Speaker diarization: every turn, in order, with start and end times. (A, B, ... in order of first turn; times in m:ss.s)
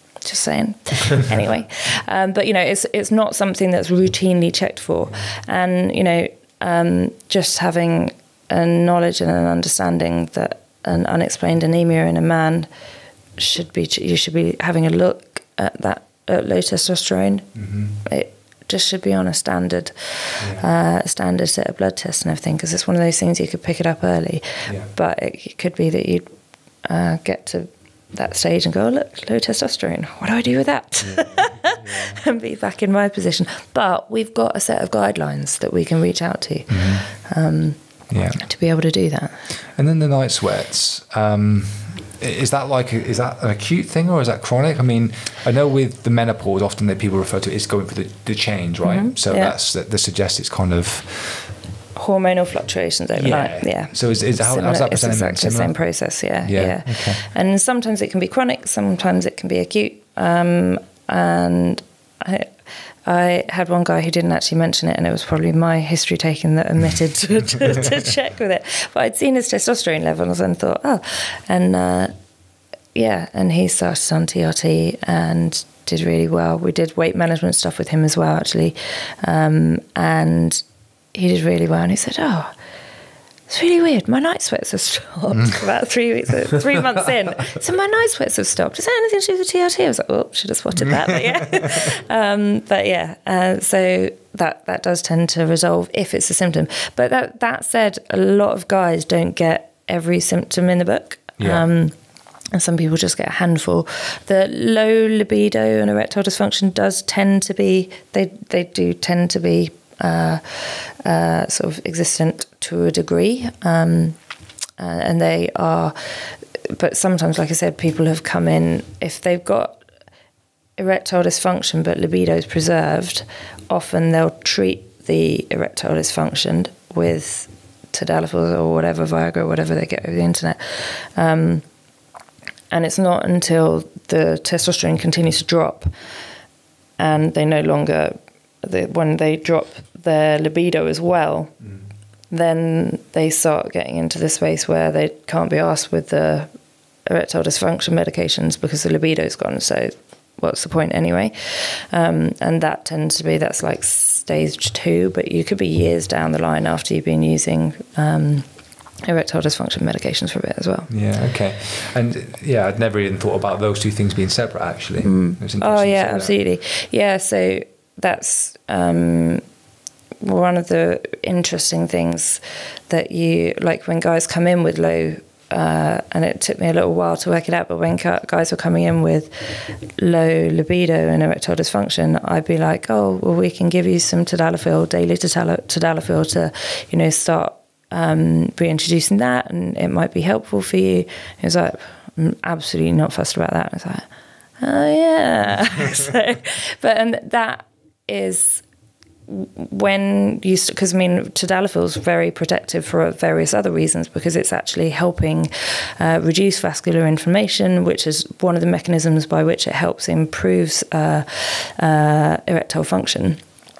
0:00.2-0:12.7 A
0:13.4-0:26.3 A
0:17.5-0:18.0 B
0:20.4-0:20.6 B
0:26.8-0:37.8 A
0:31.0-0:32.2 B
0:36.7-0:37.1 B
0:38.1-0:38.4 B
0:38.3-0:39.4 A
0:39.7-0:51.5 B
0:48.8-0:49.5 A
0:51.9-1:02.5 A
0:53.2-0:55.8 B
0:56.4-0:57.2 B
1:03.0-1:12.1 A
1:07.5-1:07.8 B
1:12.9-1:20.6 A
1:21.1-1:22.5 A
1:23.5-1:41.9 A
1:41.4-1:41.7 B
1:42.5-1:54.2 A
1:54.8-1:59.8 A
2:00.8-2:11.6 A
2:12.7-2:15.9 A
2:17.0-2:21.6 A
2:22.3-2:26.5 A
2:27.0-2:38.4 A
2:39.0-2:40.9 A
2:40.9-2:46.4 B
2:45.0-2:49.4 A
2:50.2-3:14.1 A
3:14.6-3:18.6 A
3:19.3-3:33.4 A